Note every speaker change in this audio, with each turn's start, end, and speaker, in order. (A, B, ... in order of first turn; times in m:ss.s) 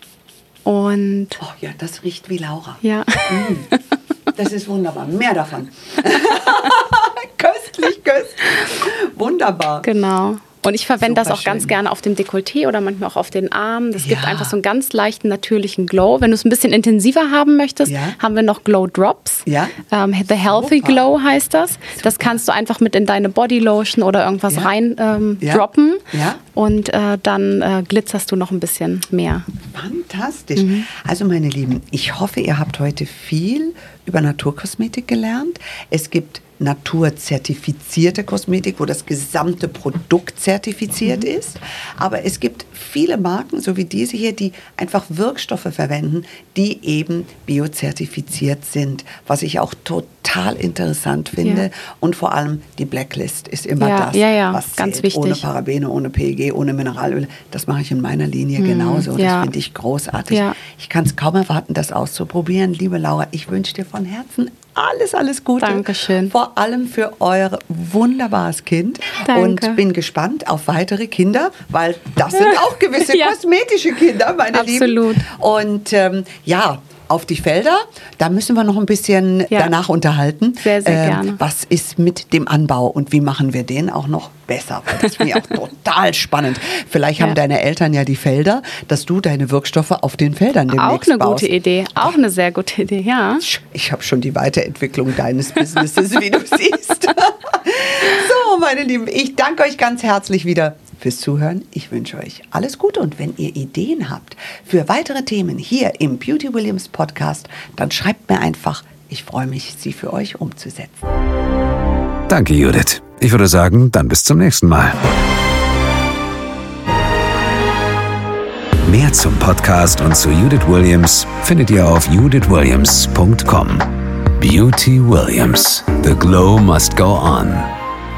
0:00.6-0:01.4 A
0:01.4-0:03.7 B
0:02.8-0:03.7 A
0:04.3-0:09.9 B
0:09.8-0:29.4 A
0:11.0-0:11.7 B
0:14.0-0:14.5 B
0:17.8-0:18.2 B
0:19.4-0:19.8 B
0:20.5-0:21.0 B
0:22.0-0:22.4 B
0:25.4-0:26.4 B
0:29.7-1:31.5 B
0:30.6-0:30.9 A
0:53.8-0:55.4 A
0:58.6-0:59.5 A
1:00.3-1:00.6 A
1:05.6-1:06.3 A
1:09.2-1:09.8 A
1:13.0-1:13.3 A
1:14.5-1:15.2 A
1:20.6-1:21.4 A
1:30.7-1:33.4 A
1:33.4-1:51.1 B
1:52.3-1:55.0 C
1:58.8-2:07.7 C